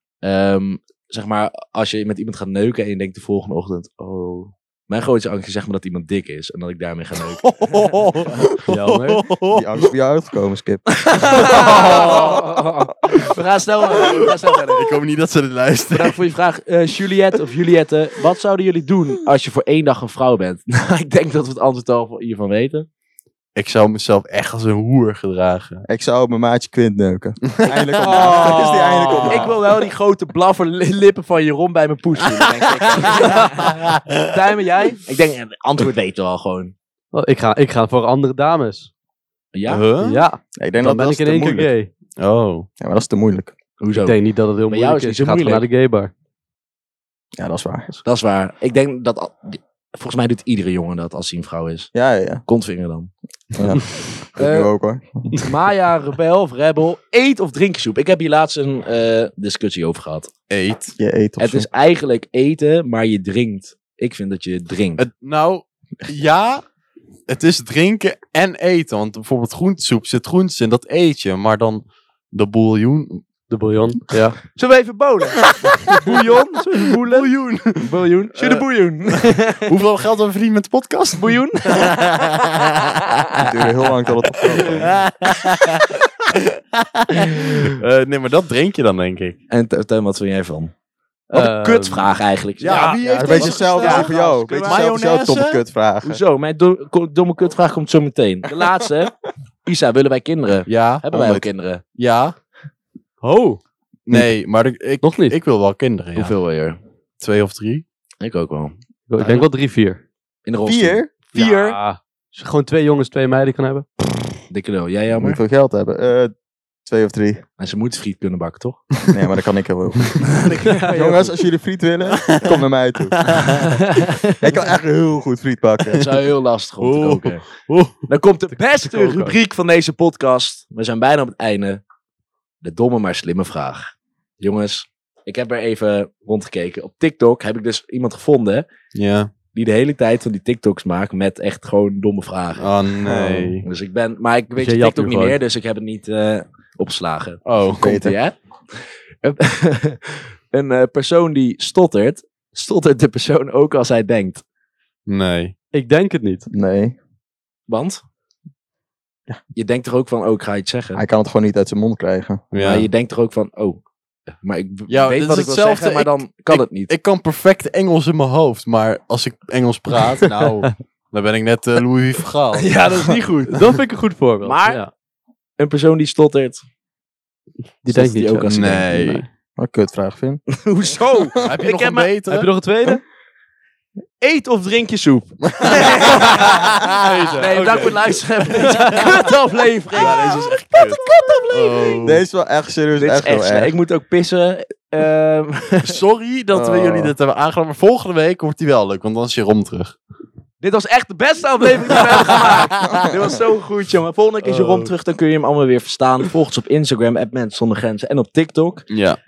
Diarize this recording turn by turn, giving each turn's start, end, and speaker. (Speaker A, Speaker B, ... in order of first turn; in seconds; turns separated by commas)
Speaker A: 0.2-7.5, Speaker B: 7.4-9.9, Speaker C: 8.7-9.2, Speaker D: 9.5-12.2, Speaker A: 11.0-14.9, Speaker B: 11.4-12.4, Speaker B: 14.7-16.2, Speaker A: 15.9-22.9, Speaker B: 23.6-25.9, Speaker D: 25.9-29.5, Speaker B: 27.5-29.5, Speaker A: 27.6-36.7, Speaker B: 33.0-34.3, Speaker C: 37.1-38.9, Speaker A: 39.5-39.8, Speaker B: 39.7-40.2, Speaker C: 40.0-41.9, Speaker D: 40.6-41.7, Speaker B: 42.2-42.7, Speaker D: 42.8-43.5, Speaker A: 43.8-44.2, Speaker C: 44.0-46.1, Speaker A: 44.7-45.6, Speaker D: 47.4-47.9, Speaker A: 48.0-51.9, Speaker D: 51.9-52.4, Speaker A: 52.5-53.8, Speaker D: 53.6-55.4, Speaker A: 54.4-54.7, Speaker A: 55.4-60.3, Speaker B: 60.5-61.0, Speaker D: 61.0-61.7, Speaker A: 61.4-65.0, Speaker B: 65.0-66.6, Speaker B: 67.3-73.2, Speaker C: 73.5-74.4, Speaker A: 74.5-79.7, Speaker B: 75.7-76.2, Speaker B: 77.0-82.9, Speaker A: 81.2-82.0, Speaker D: 83.4-84.9, Speaker B: 84.5-89.4, Speaker A: 89.5-90.7, Speaker A: 91.3-94.9, Speaker C: 91.3-92.1, Speaker B: 92.6-95.6, Speaker C: 92.7-93.2, Speaker D: 93.1-96.2, Speaker A: 96.0-101.8, Speaker B: 100.7-101.0, Speaker D: 101.1-101.5, Speaker B: 102.0-102.3, Speaker C: 103.2-103.6, Speaker B: 104.1-106.3, Speaker C: 105.0-105.3, Speaker A: 106.2-106.8, Speaker B: 107.2-107.8, Speaker A: 108.2-108.7, Speaker C: 109.1-110.0, Speaker B: 109.2-109.5, Speaker A: 110.5-111.8, Speaker D: 110.6-111.1, Speaker C: 111.3-113.9, Speaker A: 114.5-115.4, Speaker D: 115.2-116.3, Speaker D: 116.8-117.4, Speaker A: 117.6-118.8, Speaker D: 119.1-123.4, Speaker A: 120.4-120.7, Speaker C: 120.5-121.3, Speaker B: 122.1-122.6, Speaker B: 123.2-123.8, Speaker A: 123.5-124.3, Speaker D: 124.4-126.1, Speaker A: 125.9-127.5, Speaker B: 126.8-128.1, Speaker A: 128.0-131.8, Speaker C: 128.9-129.4, Speaker A: 132.6-138.7, Speaker B: 138.9-139.3, Speaker A: 139.5-142.7, Speaker B: 142.6-143.7, Speaker D: 143.0-143.6, Speaker A: 143.6-154.4, Speaker C: 144.6-145.4, Speaker B: 147.4-148.0, Speaker D: 147.8-148.2, Speaker B: 155.1-155.6, Speaker C: 155.7-156.5, Speaker D: 156.5-157.0, Speaker A: 157.7-158.0, Speaker A: 159.6-161.0, Speaker D: 160.9-162.4, Speaker B: 162.5-162.9, Speaker A: 162.6-163.8, Speaker A: 164.4-166.9, Speaker B: 164.9-172.8, Speaker A: 172.6-173.6, Speaker C: 173.5-174.9, Speaker A: 174.4-174.8, Speaker A: 175.6-176.6, Speaker C: 177.8-179.2, Speaker A: 177.9-179.1, Speaker B: 178.5-179.2, Speaker D: 179.6-180.4, Speaker A: 180.5-182.1, Speaker B: 181.4-182.5, Speaker C: 182.3-183.0, Speaker A: 184.2-186.7, Speaker B: 185.6-187.9, Speaker C: 185.9-188.0, Speaker A: 187.4-192.0, Speaker C: 188.6-189.3, Speaker B: 189.9-192.2, Speaker D: 192.0-193.7, Speaker A: 193.0-196.0, Speaker B: 195.8-200.0, Speaker D: 196.5-197.2, Speaker A: 200.6-208.9, Speaker B: 202.1-202.6, Speaker B: 204.4-204.9, Speaker B: 208.9-209.2